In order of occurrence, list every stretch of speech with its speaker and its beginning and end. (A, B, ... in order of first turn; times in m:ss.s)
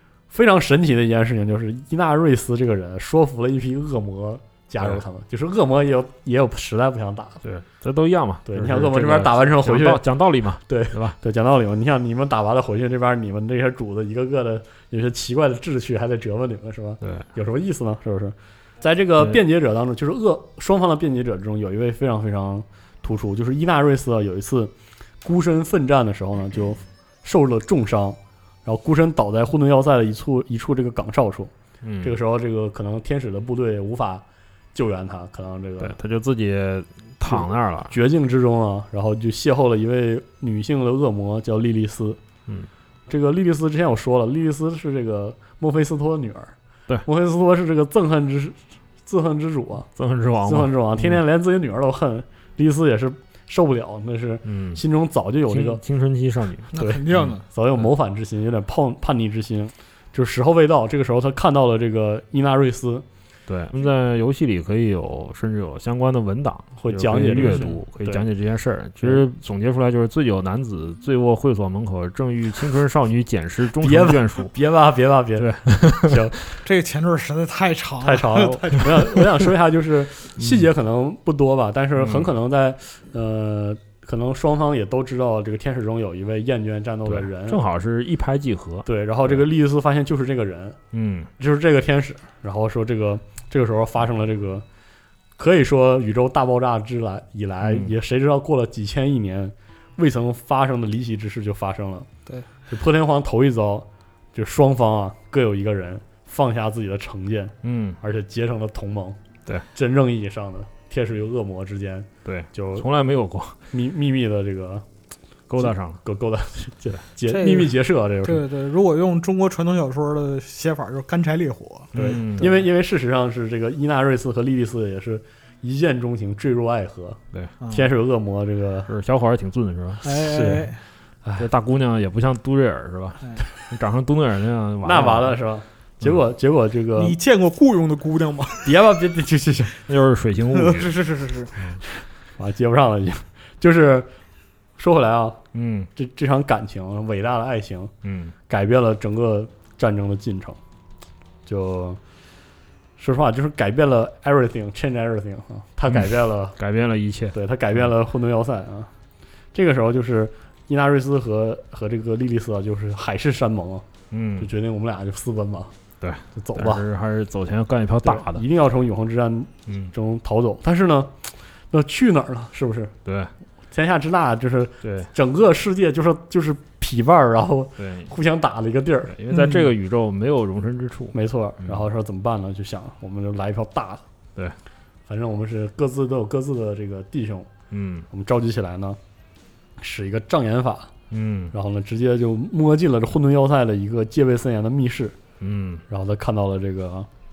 0:00.3-0:07.4 A
0:07.4-0:11.2 B
0:08.4-0:10.0 A
0:10.6-0:24.7 A
0:17.0-0:17.3 B
0:25.2-0:31.5 A
0:31.8-0:32.2 B
0:32.0-0:36.0 A
0:35.8-0:37.9 B
0:37.3-0:42.2 A
0:43.1-0:49.9 A
0:49.9-0:51.2 B
0:50.4-0:55.8 A
0:54.4-0:54.8 B
0:55.5-0:57.3 B
0:56.7-0:57.4 C
0:56.7-1:03.0 A
1:03.5-1:14.5 B
1:06.8-1:08.2 A
1:07.4-1:07.8 C
1:13.8-1:16.4 A
1:15.4-1:16.4 B
1:16.6-1:19.4 C
1:18.0-1:27.6 A
1:20.4-1:20.7 B
1:22.0-1:22.3 B
1:27.0-1:29.4 B
1:28.8-1:30.8 A
1:30.9-1:31.3 B
1:31.4-1:34.6 A
1:35.4-1:42.1 A
1:37.6-1:37.9 B
1:42.7-1:49.2 A
1:47.6-1:48.0 B
1:49.7-1:52.8 A
1:52.2-1:53.6 B
1:53.7-1:54.8 A
1:55.5-1:56.0 B
1:55.6-1:58.5 A
1:57.3-2:02.6 C
2:01.9-2:02.5 B
2:01.9-2:08.9 A
2:07.6-2:07.9 C
2:08.9-2:10.0 B
2:10.0-2:10.8 C
2:10.1-2:10.7 A
2:11.4-2:15.4 B
2:14.8-2:17.2 A
2:17.0-2:18.7 C
2:18.6-2:19.8 A
2:19.8-2:21.0 B
2:20.5-2:21.6 C
2:22.4-2:24.1 A
2:24.8-2:25.4 A
2:25.5-2:25.9 B
2:25.9-2:27.9 A
2:28.0-2:28.3 B
2:28.5-2:30.6 A
2:31.4-2:32.0 A
2:33.0-2:36.6 A
2:35.9-2:37.4 B
2:37.3-2:38.9 A
2:39.5-2:43.8 A
2:44.1-2:44.5 B
2:44.4-2:45.7 A
2:46.0-2:48.4 B
2:46.4-2:46.8 A
2:48.0-2:52.9 A
2:49.7-2:49.9 B
2:53.0-2:53.3 B
2:53.7-2:59.1 A
2:54.8-2:55.1 B
2:57.8-2:58.1 B
2:59.1-3:01.8 B
2:59.3-2:59.7 C
3:01.1-3:04.0 A
3:05.1-3:07.5 A
3:07.7-3:08.1 B
3:08.1-3:09.0 A
3:09.8-3:10.9 A
3:11.1-3:11.5 B
3:11.5-3:15.2 A
3:15.4-3:15.8 B
3:15.9-3:17.1 A